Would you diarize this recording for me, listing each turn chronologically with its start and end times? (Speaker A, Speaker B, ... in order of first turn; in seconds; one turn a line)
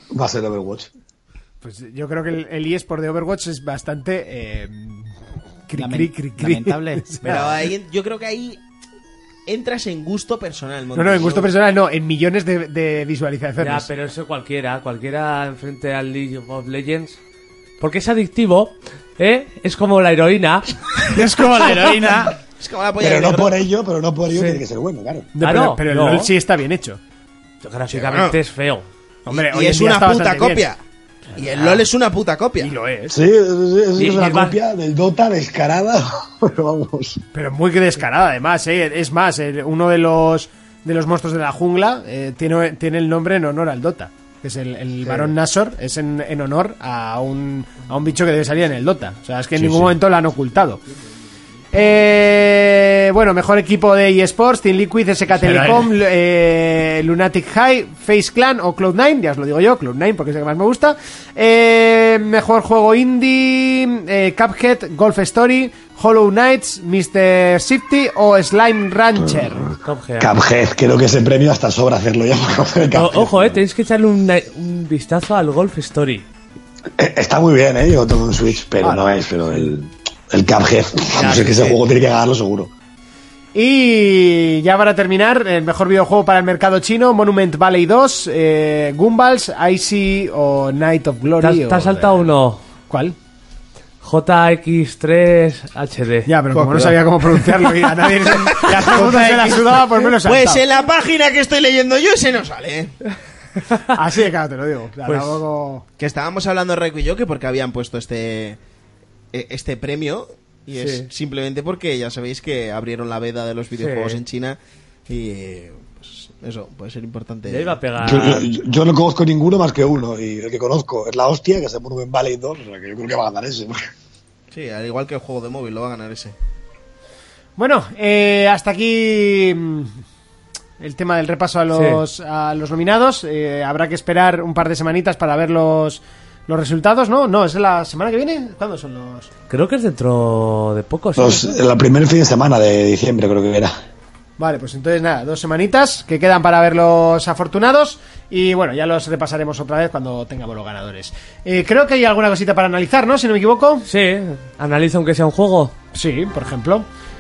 Speaker A: 0.1-0.9
Speaker B: 1.6-5.1
Speaker B: 5.7-7.4
Speaker C: 5.7-7.5
Speaker D: 7.2-8.6
Speaker D: 9.5-11.5
Speaker B: 10.9-13.9
Speaker E: 13.6-17.2
Speaker E: 17.8-21.2
Speaker C: 21.1-22.4
Speaker D: 22.6-23.6
Speaker A: 23.0-25.3
Speaker E: 24.3-24.6
Speaker B: 25.3-27.0
Speaker E: 25.4-26.3
Speaker E: 27.6-28.9
Speaker D: 27.9-28.4
Speaker B: 29.2-30.7
Speaker D: 29.3-30.8
Speaker D: 31.3-32.7
Speaker B: 31.6-31.8
Speaker B: 32.6-33.2
Speaker A: 33.1-37.2
Speaker E: 34.0-34.5
Speaker B: 37.3-50.8
Speaker C: 49.5-49.9
Speaker B: 51.7-69.7
Speaker C: 55.3-55.9
Speaker A: 69.4-73.6
Speaker E: 69.8-70.3
Speaker E: 72.9-76.2
Speaker A: 77.0-82.7
Speaker B: 78.8-79.2
Speaker E: 81.1-81.8
Speaker B: 83.5-92.3
Speaker E: 91.4-92.6
Speaker B: 92.9-93.2
Speaker E: 94.0-96.3
Speaker B: 96.3-100.6
Speaker D: 96.5-97.0
Speaker D: 98.4-102.9
Speaker B: 103.9-105.8
Speaker E: 105.0-105.4
Speaker D: 106.0-108.6
Speaker D: 109.3-117.8
Speaker E: 110.7-111.1
Speaker E: 113.8-114.2
Speaker E: 117.5-118.5
Speaker A: 118.0-123.8
Speaker D: 124.5-126.3
Speaker B: 127.6-130.0
Speaker B: 130.8-139.3
Speaker E: 131.7-132.0
Speaker E: 139.5-141.5
Speaker A: 141.2-143.7
Speaker B: 144.4-153.8
Speaker E: 153.9-155.7
Speaker B: 155.9-156.8